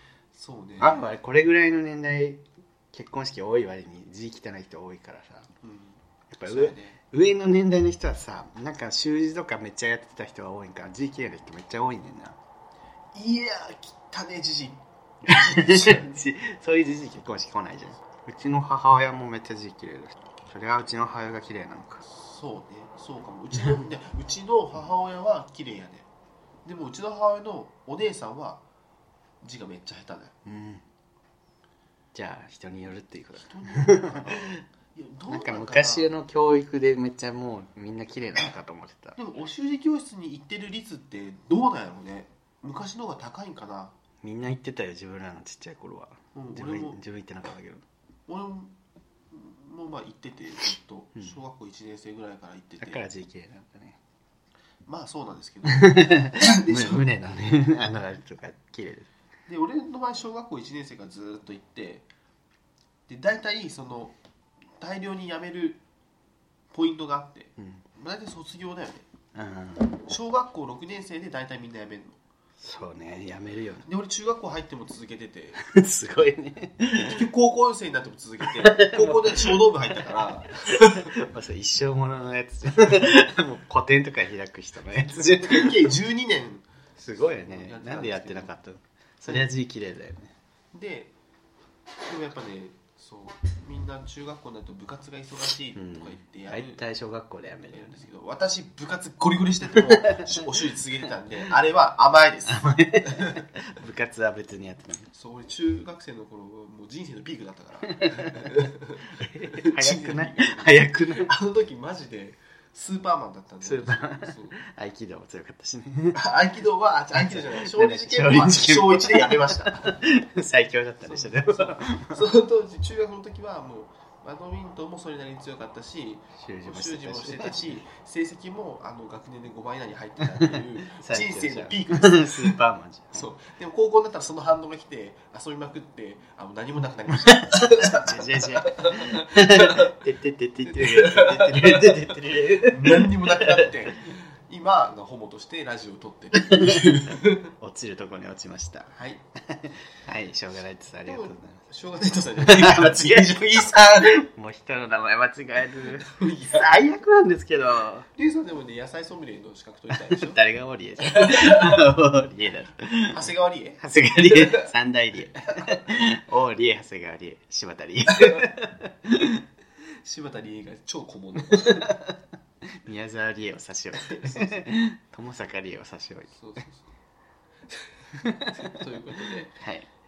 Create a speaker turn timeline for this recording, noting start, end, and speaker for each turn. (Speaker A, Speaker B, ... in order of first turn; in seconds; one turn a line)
Speaker A: 0.3-1.1
Speaker B: 0.8-5.5
Speaker A: 5.6-7.0
Speaker B: 6.3-12.4
Speaker A: 13.1-16.1
Speaker B: 15.3-22.0
Speaker A: 22.0-26.1
Speaker A: 26.6-28.6
Speaker A: 29.4-30.3
Speaker B: 30.4-30.8
Speaker B: 32.1-34.6
Speaker A: 33.4-36.1
Speaker B: 35.3-39.2
Speaker A: 39.1-43.9
Speaker B: 44.2-47.8
Speaker A: 46.3-47.0
Speaker A: 48.3-48.7
Speaker A: 49.3-53.0
Speaker B: 52.8-54.0
Speaker A: 54.9-57.1
Speaker B: 55.7-59.1
Speaker A: 59.5-62.1
Speaker A: 63.1-64.2
Speaker A: 64.8-65.8
Speaker A: 66.7-69.0
Speaker B: 67.6-67.8
Speaker B: 69.3-70.0
Speaker A: 70.1-72.2
Speaker B: 72.6-73.8
Speaker A: 73.8-75.6
Speaker B: 75.6-77.2
Speaker A: 77.0-81.1
Speaker B: 78.6-79.7
Speaker B: 80.8-85.9
Speaker A: 85.1-88.5
Speaker B: 87.0-90.3
Speaker A: 90.7-91.1
Speaker A: 92.0-96.8
Speaker B: 95.7-98.0
Speaker A: 97.6-103.5
Speaker B: 99.7-100.5
Speaker B: 102.5-105.1
Speaker A: 105.1-114.6
Speaker B: 108.0-108.5
Speaker B: 109.1-111.3
Speaker B: 113.6-116.2
Speaker A: 116.1-119.9
Speaker B: 117.2-122.2
Speaker A: 121.0-132.6
Speaker B: 126.4-127.8
Speaker B: 130.4-133.3
Speaker A: 133.1-139.9
Speaker B: 137.2-143.7
Speaker A: 140.7-147.5
Speaker B: 146.4-148.9
Speaker A: 148.9-149.2
Speaker B: 149.5-151.6
Speaker A: 151.0-154.2
Speaker B: 152.4-158.1
Speaker A: 156.1-156.7
Speaker A: 158.2-160.4
Speaker B: 159.9-163.3
Speaker A: 161.0-161.8
Speaker A: 163.1-164.7
Speaker B: 163.8-169.4
Speaker A: 168.1-168.4
Speaker A: 170.0-171.9
Speaker B: 171.5-172.1
Speaker B: 172.8-176.3
Speaker A: 174.1-174.6
Speaker A: 176.3-176.9
Speaker A: 178.2-179.6
Speaker B: 178.2-178.6
Speaker B: 179.6-179.9